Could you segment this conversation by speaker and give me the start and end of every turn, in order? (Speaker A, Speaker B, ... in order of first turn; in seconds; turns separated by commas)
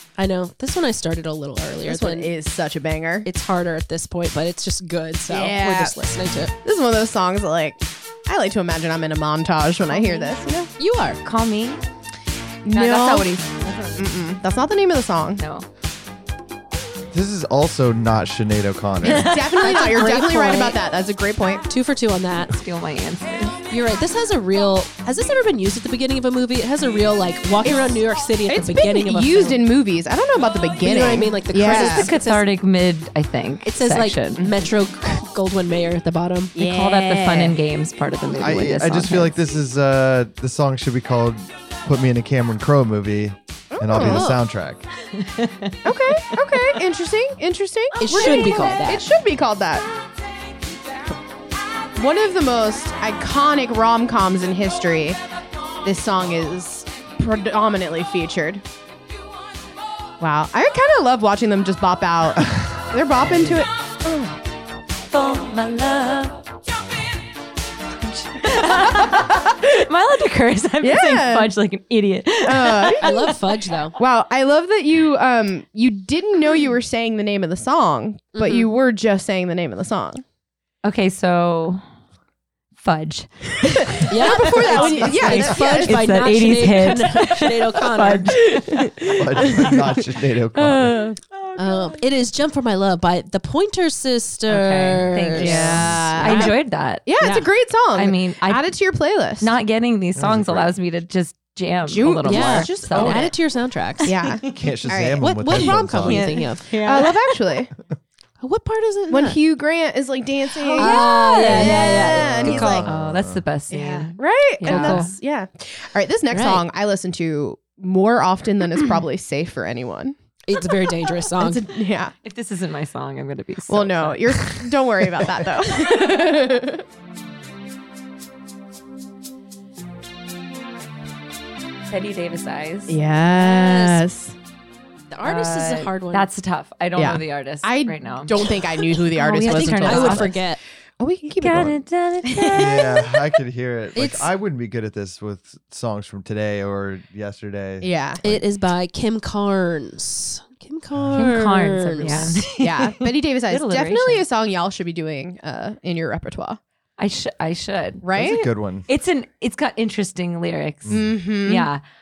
Speaker A: 0.2-2.3, Speaker B: 1.8-3.3, Speaker A: 3.2-6.5, Speaker B: 5.3-6.0, Speaker B: 6.6-10.7, Speaker C: 9.9-10.3, Speaker A: 10.8-11.2, Speaker C: 11.2-11.8, Speaker B: 12.6-13.4, Speaker C: 12.7-14.0, Speaker B: 13.9-15.4, Speaker C: 15.4-15.7, Speaker D: 17.1-19.4, Speaker C: 19.0-19.7, Speaker B: 19.1-21.6, Speaker A: 19.6-20.8, Speaker A: 21.7-22.5, Speaker C: 22.4-23.6, Speaker A: 23.7-29.6, Speaker B: 28.5-32.1, Speaker A: 30.8-32.5, Speaker C: 31.7-34.5, Speaker A: 33.6-36.5, Speaker B: 36.5-37.6, Speaker C: 36.6-39.4, Speaker D: 38.4-44.9, Speaker B: 43.7-44.3, Speaker A: 44.0-44.4, Speaker C: 45.1-46.8, Speaker B: 45.8-49.9, Speaker A: 48.0-49.1, Speaker B: 52.0-55.2, Speaker B: 55.8-58.6, Speaker B: 60.2-64.4, Speaker C: 65.1-66.4, Speaker C: 68.0-73.2, Speaker B: 70.8-71.5, Speaker B: 72.4-73.3, Speaker A: 73.0-74.0, Speaker B: 74.0-80.2, Speaker A: 78.3-78.7, Speaker C: 80.8-81.8, Speaker C: 82.8-88.9, Speaker A: 84.1-88.3, Speaker B: 84.1-86.2, Speaker B: 88.5-90.0, Speaker D: 89.2-91.0, Speaker B: 90.6-91.2, Speaker A: 91.5-96.6, Speaker C: 94.5-97.1, Speaker B: 95.3-99.5, Speaker D: 95.7-96.1, Speaker A: 97.2-97.5, Speaker C: 97.9-98.7, Speaker C: 99.4-103.3, Speaker D: 100.2-100.7, Speaker B: 101.8-103.4, Speaker A: 102.2-104.1, Speaker B: 104.0-105.8, Speaker D: 104.5-106.3, Speaker A: 105.2-106.8, Speaker C: 105.6-107.3, Speaker B: 106.8-107.7, Speaker A: 108.4-109.4, Speaker B: 109.1-112.8, Speaker A: 110.7-112.8, Speaker C: 110.7-115.1, Speaker D: 112.1-113.4, Speaker B: 113.7-122.1, Speaker A: 114.6-115.1, Speaker A: 116.3-116.6, Speaker A: 120.5-121.7, Speaker C: 122.2-124.6, Speaker B: 123.7-126.8, Speaker C: 131.9-133.0, Speaker B: 132.9-134.3, Speaker A: 133.3-134.0, Speaker A: 135.1-136.3, Speaker C: 135.2-138.3, Speaker B: 136.9-140.4, Speaker C: 139.1-140.4, Speaker A: 139.4-140.6, Speaker B: 141.0-141.8, Speaker C: 141.4-143.0, Speaker B: 142.3-142.8, Speaker D: 142.5-148.4, Speaker A: 143.9-144.3, Speaker B: 147.8-148.2, Speaker A: 148.2-152.4, Speaker D: 150.9-151.3, Speaker C: 151.1-154.2, Speaker B: 152.0-156.6, Speaker C: 157.0-158.0, Speaker B: 158.0-158.5, Speaker D: 158.1-158.8, Speaker C: 158.9-161.8, Speaker D: 160.8-161.1, Speaker B: 160.9-161.7